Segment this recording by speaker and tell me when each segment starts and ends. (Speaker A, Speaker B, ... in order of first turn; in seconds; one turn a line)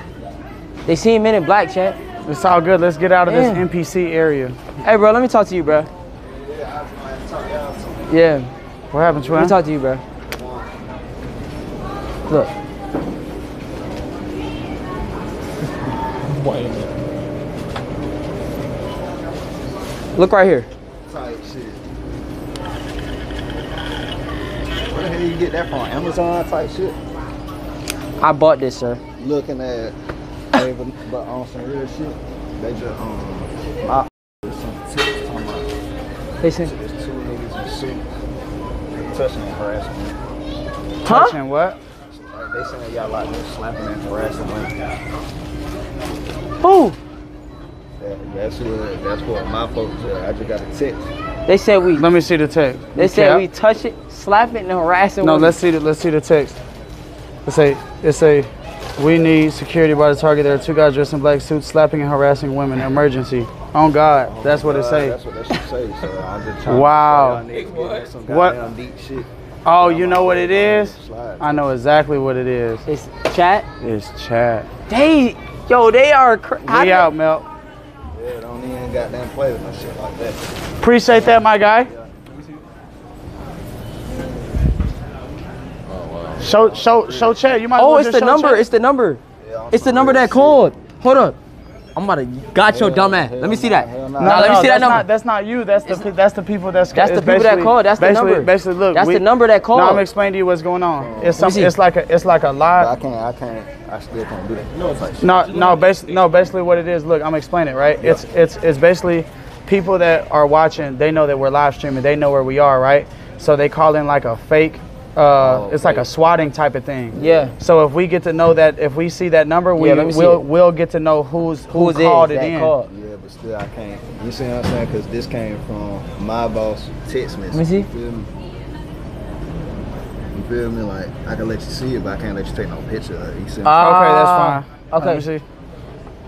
Speaker A: 0.8-2.0
Speaker B: 2.2-4.6
Speaker A: 3.3-3.6
Speaker A: 4.8-5.9
Speaker C: 6.2-8.1
Speaker A: 8.1-8.5
Speaker B: 8.9-9.6
Speaker A: 9.3-10.0
Speaker C: 10.3-10.8
Speaker D: 16.2-16.9
Speaker A: 20.1-20.7
Speaker C: 21.1-21.8
Speaker C: 24.8-27.0
Speaker A: 28.2-29.0
Speaker C: 29.2-29.9
Speaker C: 30.5-35.7
Speaker A: 36.4-36.7
Speaker C: 36.6-38.1
Speaker C: 38.9-40.1
Speaker A: 41.0-41.4
Speaker B: 41.0-41.8
Speaker C: 42.1-44.7
Speaker A: 46.6-47.0
Speaker C: 48.0-51.1
Speaker A: 51.5-52.0
Speaker B: 51.9-53.5
Speaker A: 52.9-55.6
Speaker B: 55.2-56.6
Speaker B: 57.5-65.2
Speaker C: 64.2-71.7
Speaker B: 66.6-67.4
Speaker D: 67.5-68.1
Speaker B: 68.2-68.6
Speaker B: 69.6-72.8
Speaker A: 72.9-73.7
Speaker B: 73.8-74.7
Speaker A: 74.9-77.1
Speaker B: 76.6-77.5
Speaker C: 78.1-80.4
Speaker B: 80.8-81.9
Speaker B: 86.4-88.7
Speaker A: 87.7-91.4
Speaker C: 89.4-90.7
Speaker A: 91.9-95.1
Speaker C: 92.7-94.8
Speaker B: 94.2-102.9
Speaker A: 96.9-100.0
Speaker C: 101.0-101.4
Speaker A: 101.3-101.7
Speaker C: 102.8-105.3
Speaker D: 104.7-106.3
Speaker B: 105.2-122.7
Speaker C: 115.4-116.1
Speaker A: 117.1-117.5
Speaker A: 119.8-120.4
Speaker A: 121.7-122.9
Speaker C: 122.9-128.3
Speaker A: 127.5-127.9
Speaker C: 130.3-133.8
Speaker A: 133.6-135.2
Speaker B: 133.7-135.4